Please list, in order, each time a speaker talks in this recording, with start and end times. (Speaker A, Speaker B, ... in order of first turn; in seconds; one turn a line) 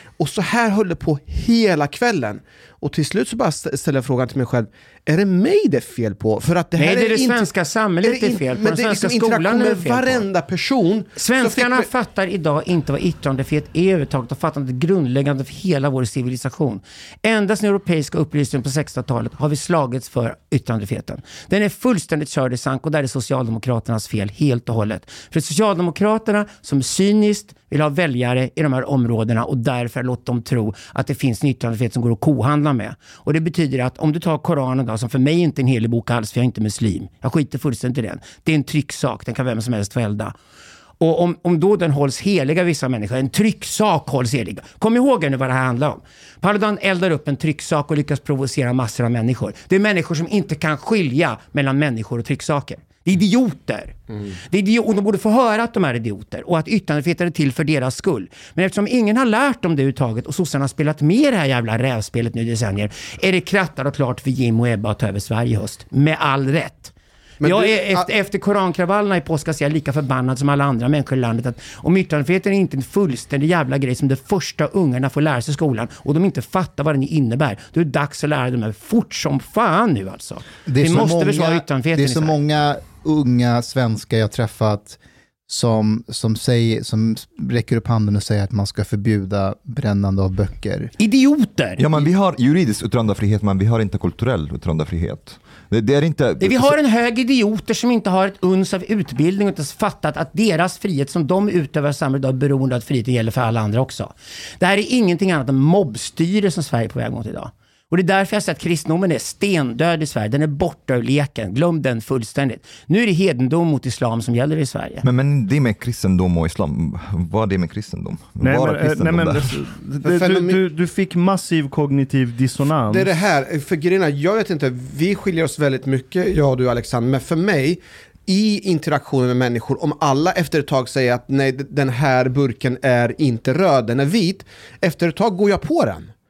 Speaker A: 0.2-7.5
Speaker B: 6.8-10.3
Speaker A: 8.0-11.9
Speaker B: 11.2-40.4
Speaker B: 41.0-54.0
Speaker B: 54.5-82.4
Speaker A: 67.4-68.1
Speaker C: 80.7-90.9
Speaker B: 91.0-92.0
Speaker D: 91.8-96.8
Speaker B: 96.4-115.0
Speaker D: 115.0-119.6
Speaker E: 118.4-123.1
Speaker A: 120.0-120.6
Speaker A: 122.9-136.1